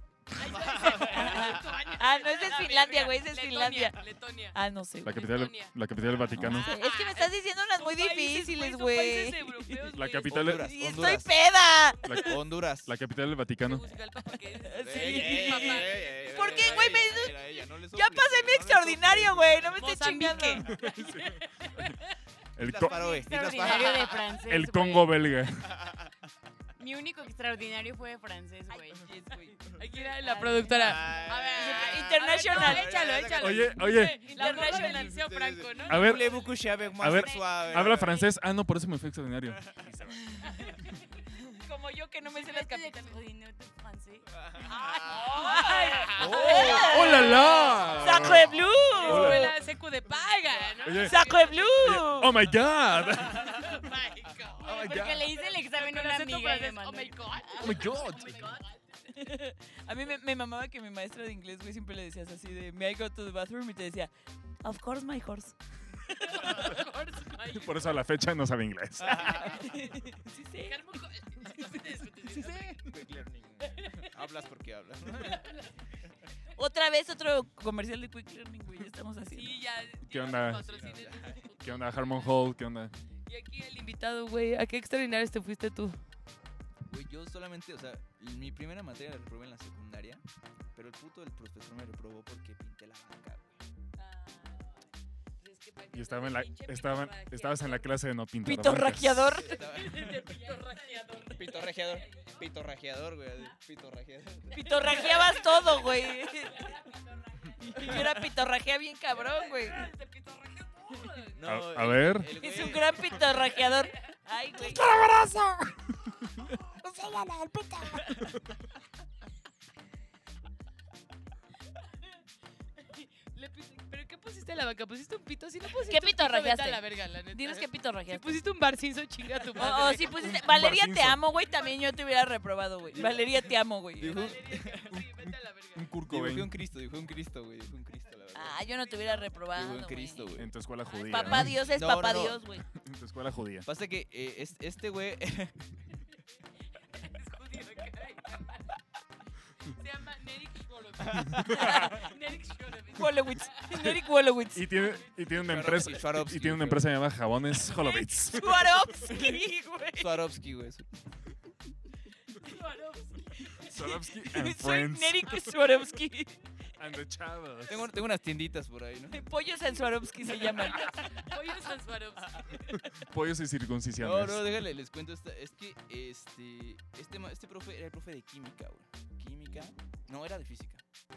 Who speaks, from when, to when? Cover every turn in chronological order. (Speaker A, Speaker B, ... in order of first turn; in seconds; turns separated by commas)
Speaker A: 0.4-4.6, Speaker B: 0.7-4.0, Speaker B: 4.5-5.2, Speaker C: 5.0-6.8, Speaker A: 5.1-5.7, Speaker B: 6.3-9.8, Speaker A: 6.4-10.4, Speaker C: 9.9-10.7, Speaker D: 10.3-11.3, Speaker B: 10.5-12.2, Speaker C: 12.1-13.8, Speaker D: 12.2-12.9, Speaker A: 13.6-17.0, Speaker B: 14.7-20.8, Speaker D: 14.8-19.7, Speaker A: 19.8-22.2, Speaker C: 20.6-22.0, Speaker C: 22.6-23.1, Speaker D: 22.6-24.3, Speaker A: 23.0-24.2, Speaker E: 23.1-25.2, Speaker C: 24.4-25.8, Speaker D: 25.6-26.1, Speaker E: 26.8-29.1, Speaker B: 28.7-33.1, Speaker A: 29.6-36.2, Speaker E: 30.3-30.7, Speaker D: 30.7-33.8, Speaker E: 31.2-32.7, Speaker C: 33.4-34.2, Speaker B: 34.0-35.2, Speaker E: 34.3-35.2, Speaker D: 34.6-38.3, Speaker C: 35.9-36.5, Speaker C: 37.0-40.2, Speaker E: 37.1-38.2, Speaker A: 40.5-41.3, Speaker B: 41.5-43.1, Speaker E: 42.2-44.3, Speaker D: 44.3-46.0, Speaker B: 44.6-49.5, Speaker A: 45.1-48.0, Speaker C: 46.2-49.5, Speaker A: 48.9-52.2, Speaker C: 50.8-53.8, Speaker B: 51.0-52.4, Speaker A: 53.2-59.1, Speaker C: 54.6-55.3, Speaker E: 54.7-58.6, Speaker C: 57.6-58.5, Speaker B: 59.1-64.1, Speaker B: 64.6-66.3, Speaker A: 66.1-68.0, Speaker C: 67.5-69.5, Speaker D: 69.0-69.8, Speaker A: 69.3-69.8, Speaker B: 69.4-70.8, Speaker A: 70.6-72.9, Speaker D: 72.3-75.5, Speaker A: 73.6-74.1, Speaker A: 75.2-75.8, Speaker B: 76.5-79.6, Speaker A: 79.3-82.4, Speaker C: 80.0-80.7, Speaker D: 80.3-81.5, Speaker C: 81.6-82.9, Speaker A: 83.3-86.0, Speaker D: 86.9-93.6, Speaker A: 94.0-94.8, Speaker A: 95.4-98.0, Speaker C: 95.9-99.5, Speaker B: 98.4-99.6, Speaker D: 99.4-100.5, Speaker A: 99.5-102.3, Speaker D: 101.2-104.6, Speaker B: 104.5-106.7, Speaker A: 104.5-105.9, Speaker A: 106.5-106.9, Speaker B: 107.6-109.9, Speaker A: 107.6-108.1, Speaker A: 109.1-111.4, Speaker D: 111.3-113.2, Speaker C: 111.4-112.4, Speaker B: 112.4-115.0, Speaker A: 112.6-114.2, Speaker F: 114.5-118.3, Speaker A: 122.8-130.2, Speaker B: 125.8-128.4, Speaker B: 129.6-134.3, Speaker C: 130.0-131.2, Speaker D: 134.0-134.9, Speaker A: 134.0-135.9, Speaker C: 134.9-136.5, Speaker D: 136.1-138.6, Speaker B: 138.3-140.4, Speaker A: 138.9-139.3, Speaker D: 139.5-140.5, Speaker C: 140.4-141.6, Speaker A: 140.9-141.4, Speaker B: 141.1-142.7, Speaker D: 141.7-142.4, Speaker C: 142.7-143.7, Speaker D: 143.6-145.6, Speaker A: 146.9-148.8, Speaker A: 149.6-154.1, Speaker D: 151.1-151.4, Speaker C: 151.3-152.1, Speaker B: 152.9-154.8, Speaker C: 154.5-158.8, Speaker A: 154.7-155.2, Speaker D: 155.3-156.9, Speaker A: 157.6-158.1, Speaker B: 158.3-160.2, Speaker D: 159.0-159.4, Speaker D: 160.0-160.9, Speaker A: 162.4-163.6, Speaker B: 163.5-166.4, Speaker C: 163.6-165.6, Speaker C: 166.8-167.9, Speaker D: 167.7-169.2, Speaker B: 169.1-171.2, Speaker A: 170.7-172.8, Speaker C: 172.7-174.5, Speaker D: 174.0-180.8